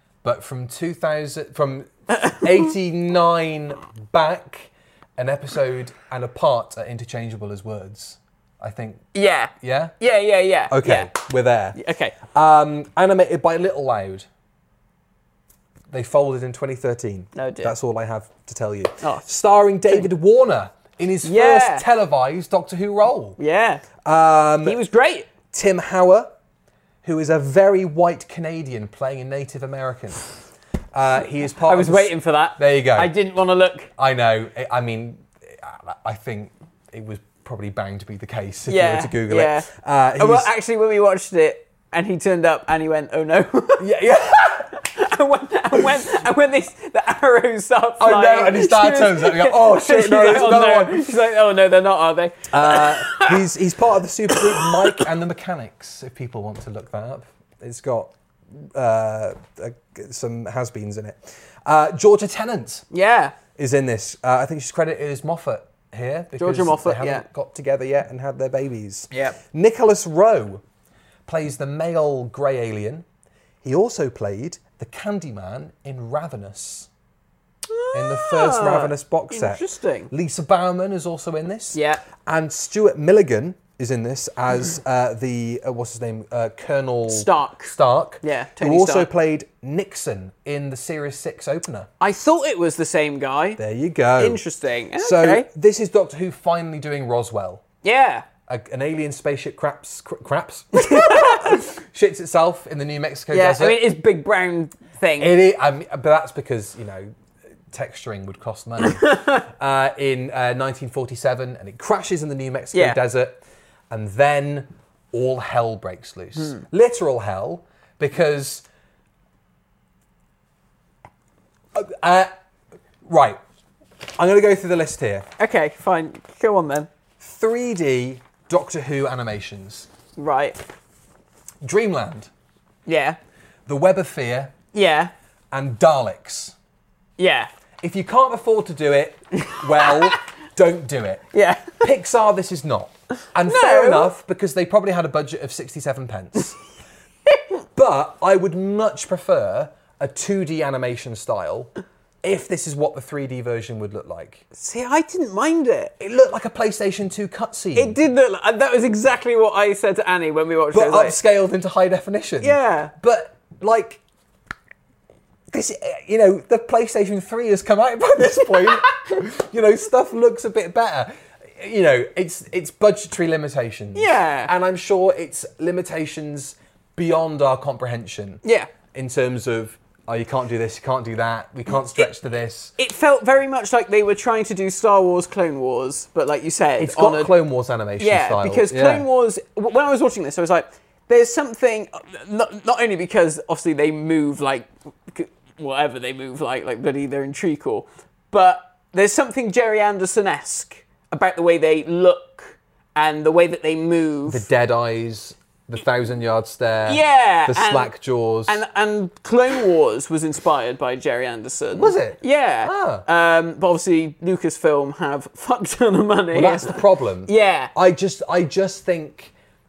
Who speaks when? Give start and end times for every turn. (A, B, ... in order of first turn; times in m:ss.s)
0:00.2-0:09.1 A
0:02.1-0:02.6 B
0:09.1-0:11.1 B
0:09.6-0:10.0 A
0:10.7-0:14.3 A
0:11.8-0:12.2 B
0:15.9-0:23.4 A
0:17.4-0:17.8 B
0:19.0-0:19.3 B
0:21.2-0:21.8 B
0:23.4-0:23.8 B
0:24.0-0:24.8 A
0:24.6-0:25.3 B
0:25.5-0:26.3 A
0:27.0-0:30.2 A
0:30.9-0:33.1 A
0:31.6-0:33.9 B
0:34.0-0:40.5 A
0:38.7-0:43.9 B
0:43.8-0:44.7 A
0:44.7-0:53.5 B
0:48.0-0:51.1 A
0:52.5-1:02.9 A
0:54.3-0:55.0 B
1:02.9-1:03.4 B
1:03.6-1:10.6 A
1:06.4-1:07.3 B
1:09.1-1:09.4 B
1:11.3-1:13.1 A
1:13.6-1:16.9 A
1:17.7-1:20.1 B
1:17.9-1:31.9 A
1:21.7-1:22.0 B
1:27.1-1:29.1 B
1:32.0-1:33.6 B
1:33.6-1:34.4 A
1:34.2-1:35.5 B
1:35.0-1:37.6 A
1:37.8-1:38.3 B
1:38.5-1:43.9 A
1:40.7-1:41.6 B
1:43.3-1:45.4 B
1:45.2-1:47.1 A
1:47.7-1:58.6 A
1:48.8-1:49.4 B
1:52.7-1:53.0 B
1:56.4-1:56.6 B
2:01.7-2:02.3 A
2:03.1-2:03.4 A
2:04.2-2:05.3 A
2:05.4-2:06.9 B
2:07.2-2:09.9 A
2:10.2-2:10.6 B
2:11.6-2:12.3 A
2:12.9-2:13.2 B
2:13.7-2:14.6 A
2:14.7-2:15.1 B
2:15.5-2:16.6 A
2:17.2-2:17.5 B
2:17.8-2:26.6 A
2:19.4-2:20.2 B
2:21.3-2:21.8 B
2:23.4-2:24.1 B
2:27.8-2:31.7 A
2:32.2-2:34.4 A
2:34.5-2:35.9 B
2:36.0-2:38.0 A
2:37.8-2:41.2 B
2:40.7-2:44.0 A
2:42.4-2:42.9 B
2:45.5-3:02.7 A
2:54.0-2:54.5 B
2:58.4-2:58.7 B
3:02.8-3:07.3 B
3:06.8-3:09.0 A
3:08.0-3:24.5 B
3:24.3-3:28.6 A
3:26.9-3:27.9 B
3:28.5-3:37.7 B
3:31.7-3:33.0 A
3:36.3-3:39.3 A